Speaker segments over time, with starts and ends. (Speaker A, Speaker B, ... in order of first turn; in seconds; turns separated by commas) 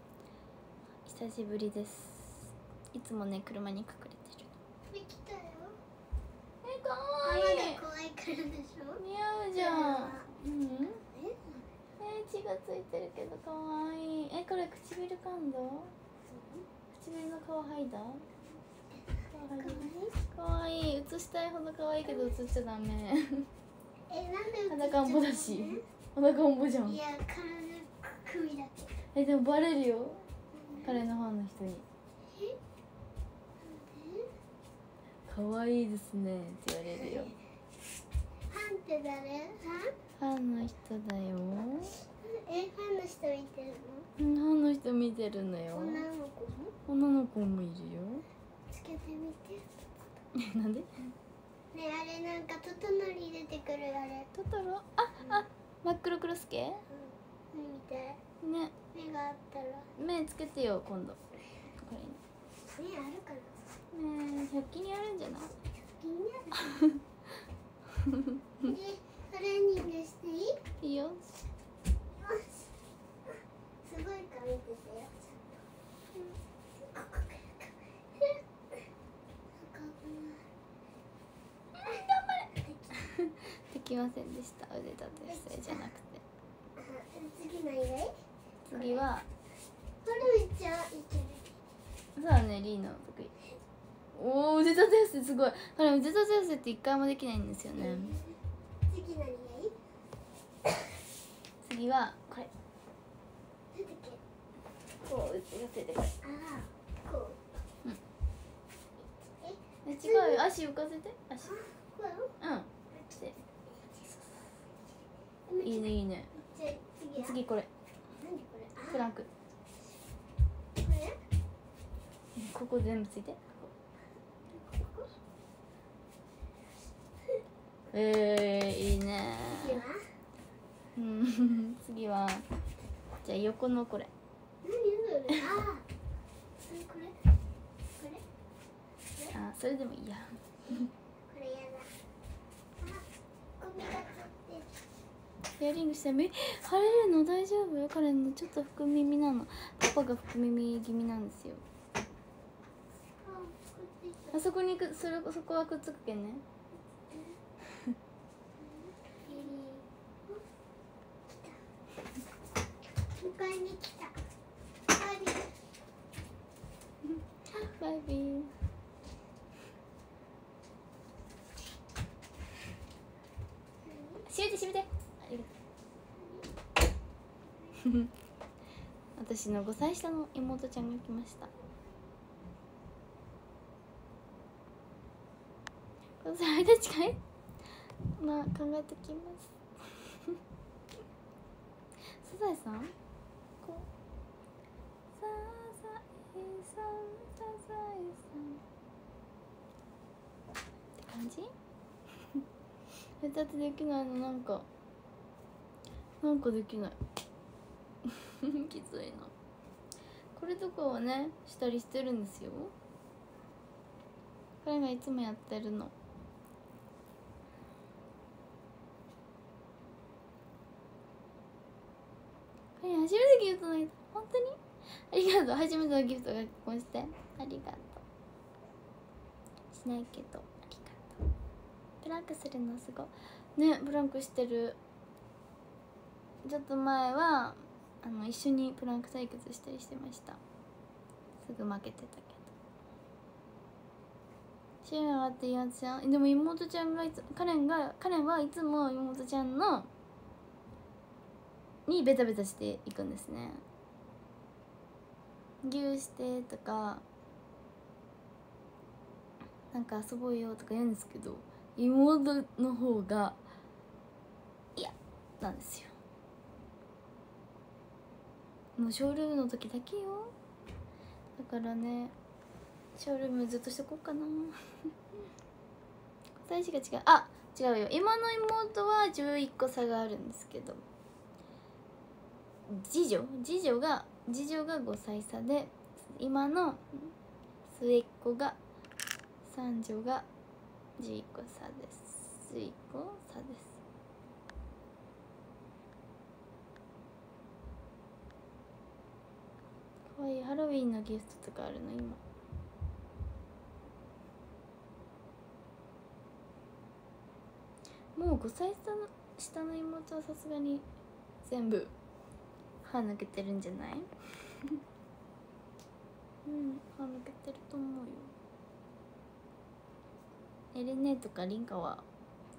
Speaker A: 1.1-4.6, Speaker B: 4.9-5.8, Speaker A: 6.6-7.8, Speaker B: 7.2-9.0, Speaker A: 9.0-11.0, Speaker B: 9.6-10.3, Speaker B: 11.0-11.7, Speaker A: 12.0-15.9, Speaker B: 16.3-16.7, Speaker A: 16.9-18.3, Speaker B: 18.9-20.1, Speaker A: 19.3-23.5, Speaker B: 22.1-22.3, Speaker B: 24.1-25.8, Speaker A: 24.7-27.0, Speaker B: 26.9-29.0, Speaker A: 29.1-30.3, Speaker B: 30.5-31.0, Speaker A: 30.8-31.8, Speaker B: 32.3-32.6, Speaker B: 33.6-34.3, Speaker A: 35.3-37.3, Speaker B: 37.0-37.4, Speaker B: 38.5-40.0, Speaker A: 40.2-42.0, Speaker B: 42.0-44.1, Speaker A: 44.2-46.1, Speaker B: 45.7-46.8, Speaker A: 46.9-48.2, Speaker B: 48.7-50.0, Speaker A: 50.4-50.9, Speaker B: 51.7-54.3, Speaker A: 54.3-56.8, Speaker B: 56.9-58.2, Speaker A: 58.4-58.7, Speaker B: 58.9-59.9, Speaker A: 60.0-62.2, Speaker B: 62.7-63.6, Speaker A: 63.9-65.5, Speaker B: 65.7-66.8, Speaker A: 66.5-67.0, Speaker A: 68.0-68.7, Speaker B: 68.6-70.6, Speaker A: 70.8-71.3, Speaker B: 72.1-75.7, Speaker B: 76.7-78.9, Speaker B: 79.5-80.5, Speaker A: 81.8-86.2, Speaker B: 81.8-82.9, Speaker B: 85.3-85.8, Speaker B: 86.8-89.1, Speaker A: 88.7-89.3, Speaker B: 90.0-91.6, Speaker A: 92.2-93.3, Speaker A: 94.1-98.2, Speaker B: 97.8-98.4, Speaker B: 98.9-99.8, Speaker B: 100.7-100.9, Speaker A: 101.6-102.5, Speaker B: 103.7-104.2, Speaker A: 105.0-106.2, Speaker B: 106.2-107.6, Speaker B: 109.0-110.5, Speaker A: 109.8-111.7, Speaker B: 111.4-112.3, Speaker A: 112.4-113.4, Speaker B: 113.7-114.5, Speaker B: 115.5-117.4, Speaker A: 115.6-116.3, Speaker A: 117.2-117.7, Speaker B: 118.2-119.1, Speaker A: 118.9-119.3, Speaker B: 120.8-121.2, Speaker A: 122.4-123.7, Speaker B: 124.5-125.1, Speaker A: 127.9-129.8, Speaker B: 129.5-130.0, Speaker A: 131.0-132.4, Speaker A: 133.2-134.1, Speaker B: 134.6-135.8, Speaker B: 136.6-137.2, Speaker B: 138.0-138.2, Speaker A: 139.3-140.9, Speaker B: 141.3-141.9, Speaker B: 142.8-143.1, Speaker B: 143.6-144.8, Speaker A: 145.6-151.6, Speaker B: 153.2-154.4, Speaker A: 154.3-156.4, Speaker B: 157.1-157.4, Speaker B: 158.6-160.4, Speaker B: 161.3-161.6, Speaker B: 163.2-164.2, Speaker B: 164.8-165.6, Speaker A: 167.5-168.5, Speaker B: 173.8-174.2, Speaker A: 174.3-175.5, Speaker B: 176.2-176.4, Speaker A: 177.8-178.1, Speaker A: 179.2-181.5, Speaker A: 186.2-187.2, Speaker A: 188.2-190.4, Speaker A: 192.2-192.9, Speaker A: 193.6-193.9, Speaker A: 195.2-198.6, Speaker A: 201.0-201.5, Speaker A: 203.2-204.7, Speaker A: 206.2-207.0, Speaker A: 208.1-209.3, Speaker A: 210.4-212.7, Speaker A: 214.6-215.9, Speaker A: 222.8-228.0, Speaker A: 229.7-231.2, Speaker A: 232.0-234.8, Speaker A: 236.4-240.4, Speaker A: 241.4-242.5, Speaker A: 244.8-249.9, Speaker A: 251.9-253.6, Speaker A: 255.6-257.0, Speaker A: 259.7-263.4, Speaker A: 264.8-265.9, Speaker A: 268.8-270.3, Speaker A: 271.4-272.1, Speaker A: 273.0-274.6, Speaker A: 276.4-280.8, Speaker A: 282.7-287.1, Speaker A: 287.7-288.6, Speaker A: 289.4-290.3, Speaker A: 291.0-293.8, Speaker A: 300.1-302.2, Speaker A: 308.2-310.9, Speaker A: 311.4-311.9, Speaker A: 312.8-314.1, Speaker A: 316.5-318.3, Speaker A: 320.7-322.1